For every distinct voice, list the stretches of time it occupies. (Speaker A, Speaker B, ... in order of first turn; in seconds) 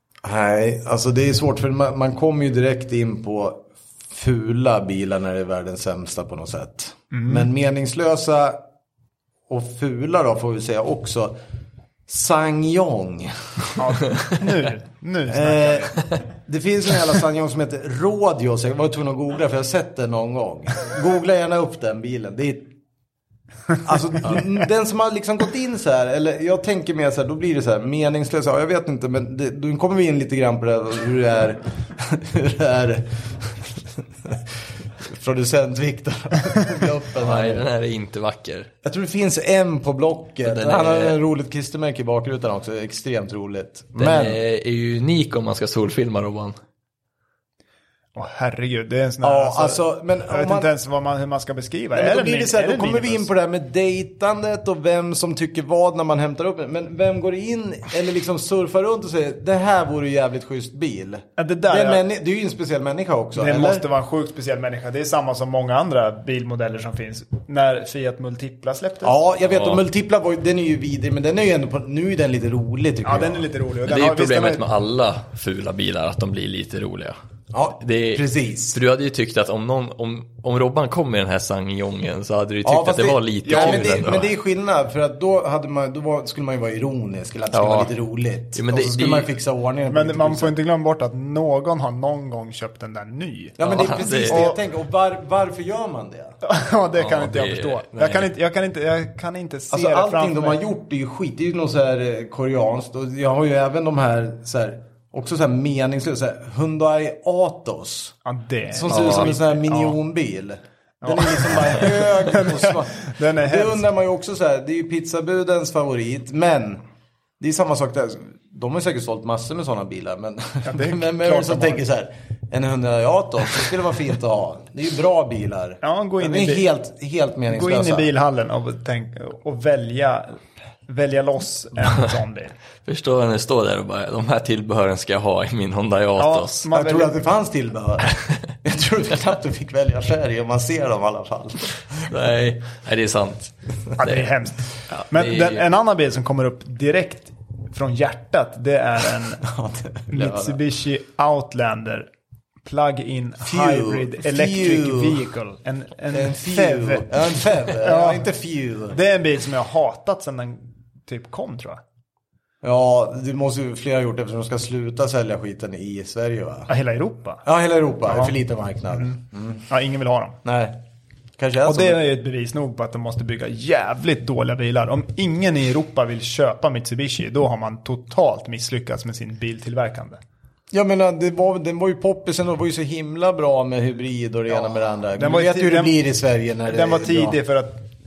Speaker A: 0.2-8.6, 9.5-11.3, 12.1-13.7, 15.3-22.7, 23.8-37.6, 38.8-44.4, 49.2-50.7, 51.9-63.8, 69.0-73.5, 77.5-78.8, 82.6-90.5, 93.6-96.3, 99.7-108.1, 108.7-116.8, 117.4-128.1, 136.7-142.1, 149.4-150.6, 153.4-155.3, 156.1-159.0, 162.6-166.7, 167.4-169.7, 170.4-170.8, 171.4-172.0, 180.7-187.4
Speaker B: 7.1-7.5, 13.8-16.0, 48.1-53.3, 61.4-62.0, 63.4-69.2, 73.0-74.6, 83.5-84.0, 89.9-94.6, 96.4-100.6, 108.2-110.0, 111.0-113.8, 120.6-121.8, 125.8-126.7, 127.5-132.5, 136.2-137.1, 144.0-149.5, 150.1-152.1, 152.7-157.1, 157.8-158.3, 158.9-161.8, 166.7-167.4, 169.7-170.4, 171.7-180.2, 185.2-185.9, 186.7-187.9
Speaker C: 37.1-38.7, 40.4-41.2, 44.0-46.6, 69.5-69.8, 73.8-77.2, 77.8-84.3, 87.5-87.9, 88.5-89.3, 93.6-94.5, 97.0-98.3, 108.9-109.3, 132.8-136.7, 142.1-144.2, 144.9-145.6